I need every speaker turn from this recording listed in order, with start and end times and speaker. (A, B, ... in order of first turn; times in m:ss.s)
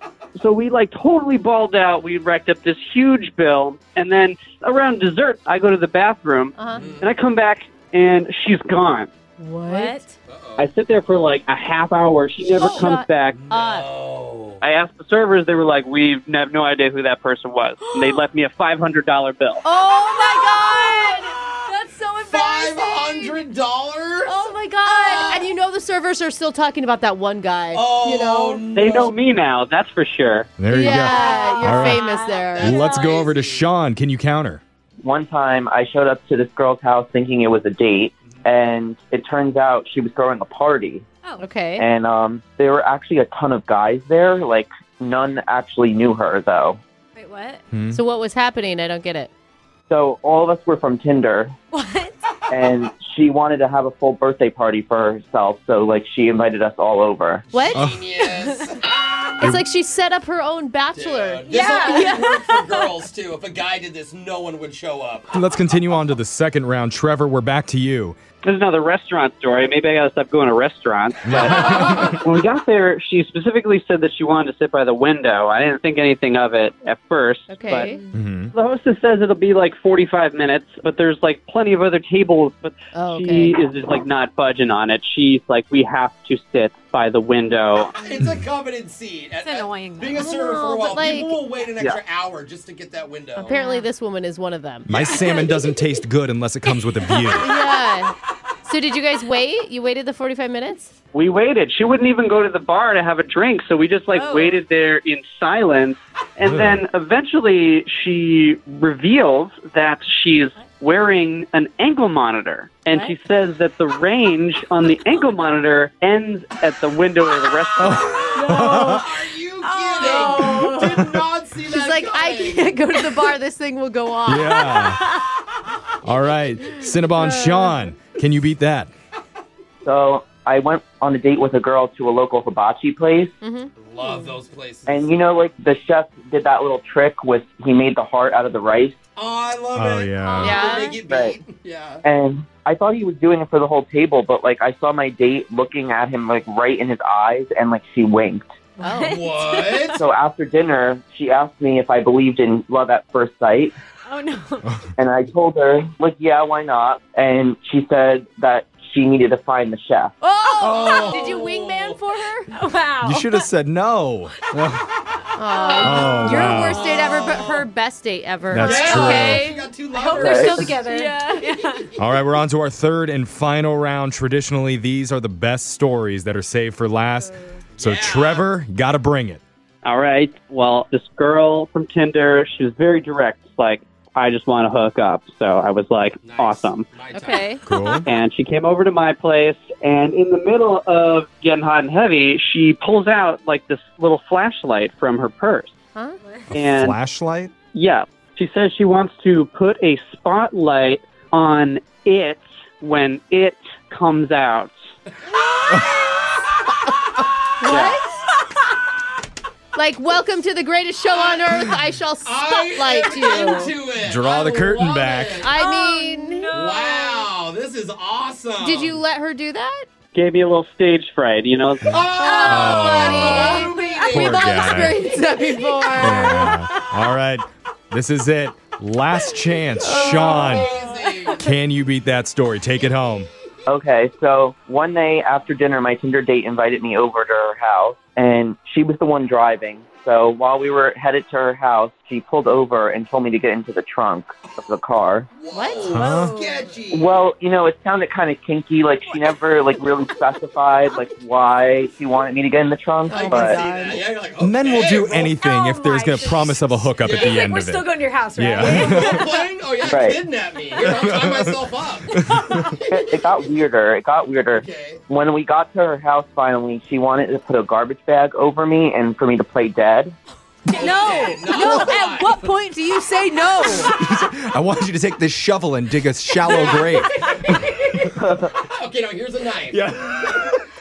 0:00.4-0:09.1 A
0:06.6-0:06.9 B
0:06.7-0:07.1 C
0:09.4-0:10.0 B
0:09.8-0:10.1 D
0:10.3-0:10.7 C
0:10.6-0:13.4 A
0:12.4-0:13.9 B
0:13.3-0:14.6 C
0:14.6-0:19.6 A
0:17.8-0:18.2 B
0:19.6-0:23.4 B
0:20.3-0:21.7 C
0:22.2-0:25.5 C
0:24.2-0:28.7 B
0:27.7-0:29.1 C
0:28.8-0:30.5 A
0:30.6-0:32.1 E
0:30.7-0:33.0 B
0:31.0-0:33.7 C
0:31.1-0:32.2 D
0:32.6-0:34.6 E
0:35.0-0:41.0 F
0:41.2-0:41.5 D
0:41.4-0:41.9 B
0:41.8-0:46.8 F
0:47.2-0:47.6 D
0:47.7-0:48.0 E
0:47.9-0:49.3 B
0:49.9-0:51.5 F
0:51.7-0:52.2 D
0:52.5-0:57.5 F
0:57.5-0:59.3 C
0:57.5-0:57.9 B
0:57.7-0:58.0 E
0:59.4-1:02.2 B
1:00.9-1:05.4 C
1:01.5-1:02.6 D
1:05.3-1:08.2 E
1:08.4-1:18.0 A
1:11.3-1:12.1 E
1:17.5-1:18.0 B
1:18.1-1:18.5 E
1:18.5-1:27.9 A
1:22.9-1:23.6 B
1:28.0-1:33.6 C
1:28.2-1:28.4 E
1:29.4-1:30.2 D
1:30.2-1:31.4 B
1:33.4-1:35.0 B
1:33.6-1:33.9 D
1:34.9-1:37.6 E
1:35.1-1:35.6 C
1:37.3-1:38.1 B
1:38.7-1:40.9 B
1:41.1-1:58.2 A
1:44.3-1:44.6 D
1:46.4-1:46.8 E
1:57.8-1:59.1 E
1:58.2-2:02.9 C
1:58.4-1:59.0 B
1:59.7-2:00.8 D
2:00.0-2:00.6 B
2:00.6-2:01.2 E
2:01.6-2:05.0 B
2:04.2-2:05.1 E
2:06.0-2:08.9 E
2:07.2-2:07.8 B
2:09.8-2:13.4 F
2:13.4-2:14.1 B
2:13.8-2:15.2 C
2:14.9-2:19.0 F
2:19.2-2:22.0 C
2:19.8-2:20.6 E
2:20.2-2:21.0 B
2:20.9-2:21.4 F
2:22.0-2:28.4 F
2:28.8-2:29.9 D
2:28.8-2:29.2 B
2:29.0-2:30.0 C
2:30.0-2:33.8 F
2:34.1-2:34.8 D
2:35.0-2:40.2 F
2:40.2-2:42.5 B
2:40.6-2:42.1 C
2:42.5-2:43.4 D
2:43.0-2:44.9 E
2:45.4-2:49.7 B
2:45.7-2:46.5 D
2:45.8-2:47.1 E
2:46.3-2:47.7 C
2:48.5-2:49.4 E
2:48.6-2:50.9 C
2:49.9-2:51.8 D
2:50.1-2:50.8 F
2:50.8-2:51.6 B
2:51.4-2:52.2 C
2:52.0-2:59.4 E
2:57.7-2:58.5 C
2:59.8-3:06.9 A
3:06.2-3:07.6 C
3:07.1-3:08.0 B
3:07.6-3:08.1 E
3:08.0-3:15.8 A
3:16.5-3:17.0 A
3:16.5-3:17.5 E
3:17.7-3:24.7 A
3:27.6-3:28.2 B
3:27.7-3:28.0 A
3:29.8-3:33.8 B
3:31.0-3:35.5 C
3:34.0-3:35.5 E
3:35.3-3:36.6 B
3:35.5-3:37.1 D
3:36.5-3:39.0 C
3:38.6-3:39.9 B
3:40.1-3:41.9 A
3:41.8-3:46.4 C
3:41.9-3:45.0 E
3:42.2-3:46.7 B
3:46.0-3:50.7 E
3:49.8-3:50.9 B
3:49.8-3:51.5 C
3:51.4-3:53.3 E
3:53.7-4:05.3 F
4:04.4-4:04.8 C
4:05.3-4:07.2 C
4:05.5-4:06.7 B
4:05.8-4:06.4 E
4:06.9-4:13.6 F
4:09.1-4:09.4 D
4:13.1-4:14.0 B
4:13.3-4:15.4 C
4:14.4-4:19.3 E
4:15.4-4:19.5 D
4:17.0-4:17.4 C
4:18.6-4:23.0 C
4:19.9-4:20.2 F
4:20.8-4:21.6 E
4:22.1-4:22.7 E
4:22.9-4:30.2 F
4:24.5-4:25.0 C
4:30.7-4:32.5 C
4:30.7-4:33.9 B
4:33.7-4:37.6 E
4:36.5-4:37.6 D
4:38.2-4:38.5 F
4:38.6-4:39.8 C
4:39.7-4:40.3 E